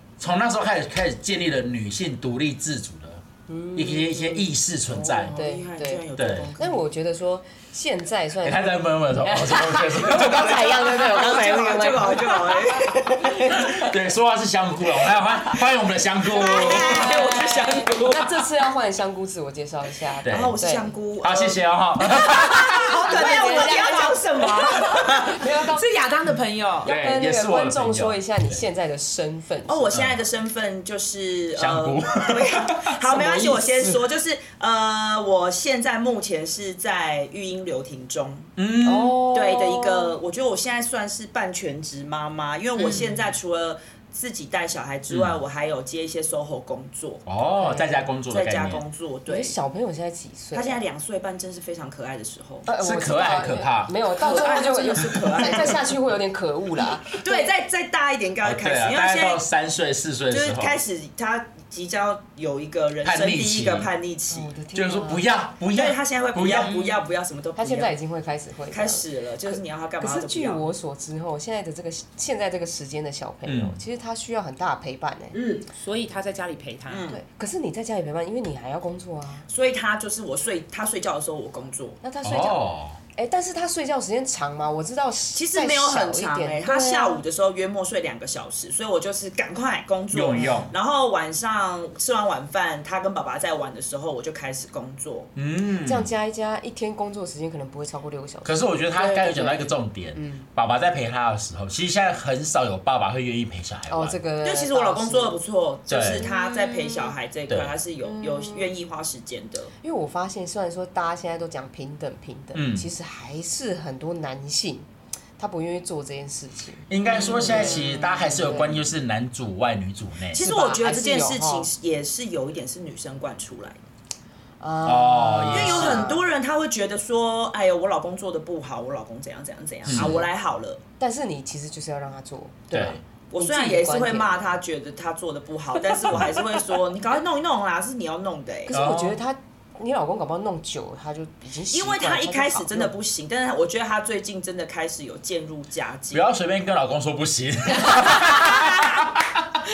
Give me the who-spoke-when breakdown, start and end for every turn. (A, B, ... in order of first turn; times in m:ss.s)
0:00.2-0:03.2 A
0:03.5-0:04.5 B
0:03.8-0:05.4 A
0:04.9-0:06.8 C
0:05.4-0:06.0 B
0:06.2-0:06.5 A
0:06.6-0:13.9 B
0:08.4-0:10.9 A
0:10.1-0:13.7 C
0:13.6-0:18.3 A
0:16.3-0:18.2 C
0:16.4-0:17.3 B
0:16.7-0:17.8 D
0:18.0-0:20.9 B
0:20.2-0:20.6 A
0:20.2-0:21.6 C
0:21.2-0:22.9 A
0:22.4-0:24.1 B
0:22.4-0:25.3 C
0:22.7-0:26.9 D
0:24.8-0:25.8 B
0:26.8-0:28.6 A
0:26.8-0:30.0 B
0:29.7-0:38.5 C
0:29.9-0:30.2 A
0:31.6-0:32.9 A
0:33.1-0:34.0 B
0:38.6-0:39.2 A
0:38.8-0:40.2 B
0:39.2-0:47.2 C
0:42.8-0:43.2 D
0:45.1-0:45.4 A
0:47.3-0:48.8 A
0:47.6-0:48.1 B
0:48.3-0:49.6 C
0:49.3-0:50.8 B
0:50.5-0:52.7 C
0:52.7-0:57.5 B
0:52.8-0:54.0 A
0:54.2-0:56.0 C
0:55.1-0:55.4 A
0:57.1-0:59.4 C
0:58.4-1:00.8 A
1:00.3-1:04.5 C
1:03.0-1:03.9 A
1:04.3-1:05.3 B
1:04.7-1:06.7 A
1:05.7-1:08.0 C
1:06.6-1:07.0 D
1:07.6-1:15.4 B
1:08.7-1:10.6 C
1:13.4-1:13.8 A
1:15.3-1:17.1 D
1:16.9-1:17.2 C
1:17.1-1:19.5 B
1:19.5-1:22.0 C
1:22.0-1:22.6 B
1:22.2-1:23.0 A
1:23.2-1:27.2 B
1:25.3-1:35.3 C
1:30.1-1:30.7 A
1:30.4-1:30.7 B
1:35.4-1:36.1 A
1:35.8-1:40.5 B
1:38.4-1:44.2 A
1:43.9-1:45.4 B
1:44.4-1:49.7 C
1:45.9-1:46.3 A
1:46.3-1:47.1 B
1:47.5-1:47.7 A
1:48.0-1:48.7 B
1:49.8-1:54.9 B
1:52.5-1:52.9 A
1:55.4-1:58.9 B
1:56.9-2:00.4 A
1:57.4-1:57.7 C
2:00.3-2:03.8 C
2:00.4-2:01.7 B
2:04.6-2:06.3 B
2:04.8-2:06.1 A
2:05.5-2:10.8 C
2:09.9-2:10.3 A
2:11.0-2:14.5 B
2:12.7-2:13.0 A
2:13.3-2:18.8 C
2:18.7-2:22.9 B
2:18.7-2:19.2 A
2:21.7-2:26.2 C
2:26.1-2:29.4 A